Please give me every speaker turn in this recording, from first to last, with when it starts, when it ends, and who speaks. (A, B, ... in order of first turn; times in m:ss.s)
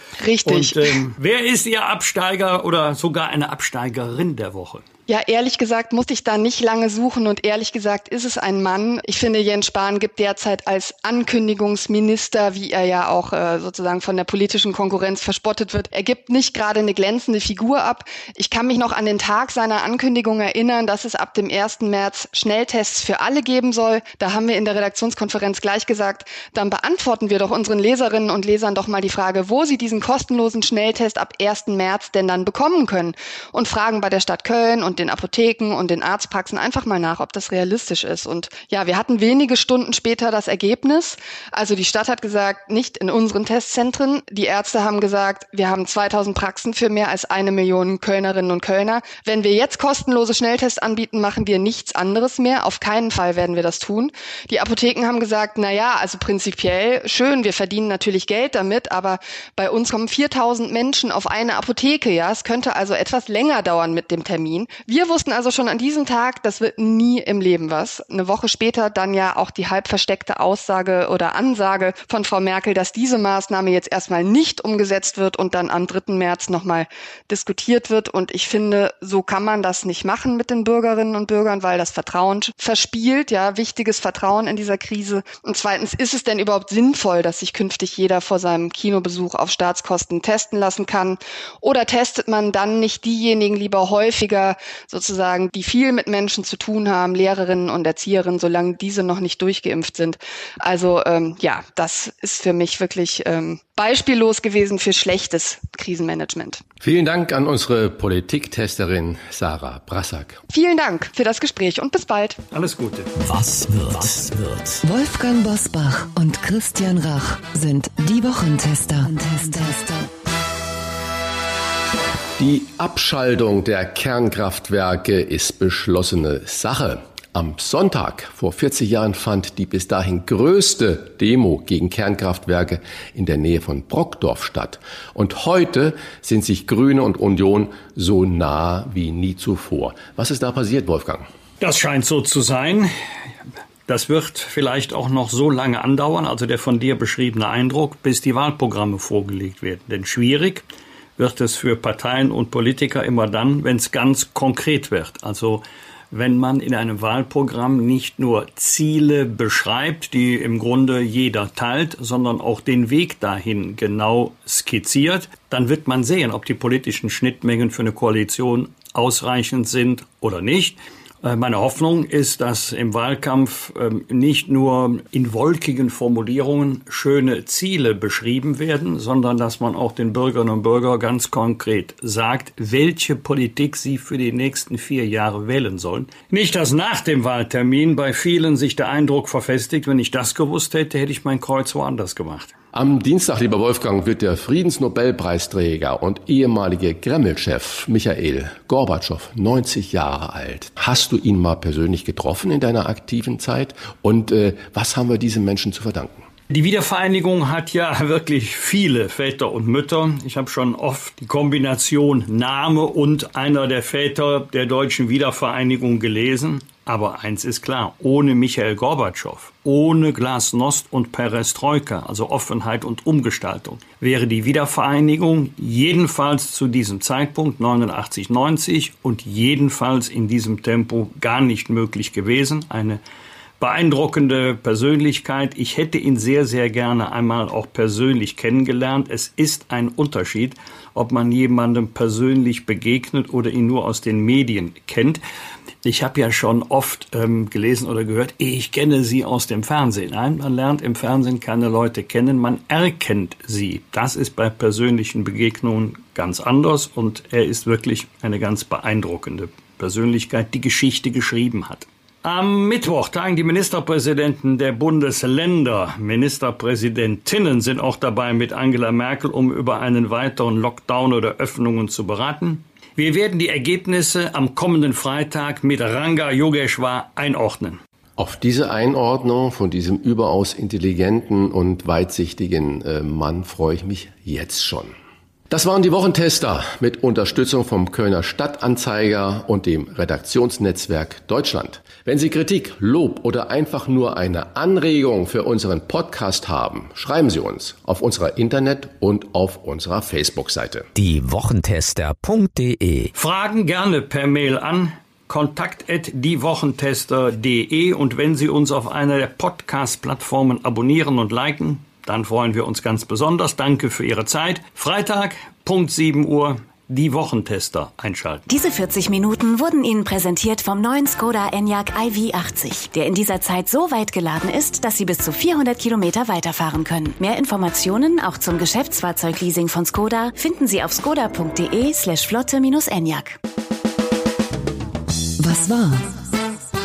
0:00.2-0:01.0 A
0:00.4-0:04.8 B
0:05.1-1:46.6 A
1:46.8-1:50.4 C
1:50.5-1:52.4 A
1:52.5-1:53.1 B
1:53.2-1:54.8 D
1:54.8-2:00.1 E
2:02.4-2:21.3 C
2:21.6-2:22.9 B
2:23.9-2:30.6 B
2:31.2-3:12.5 B
3:12.7-3:26.2 C
3:26.5-3:53.0 B
3:53.6-4:05.2 B
4:05.8-4:37.8 B
4:38.2-4:44.9 C
4:45.5-5:00.9 C
5:01.0-5:03.1 D
5:03.2-5:18.5 B
5:18.5-5:33.4 F
5:35.4-5:36.0 E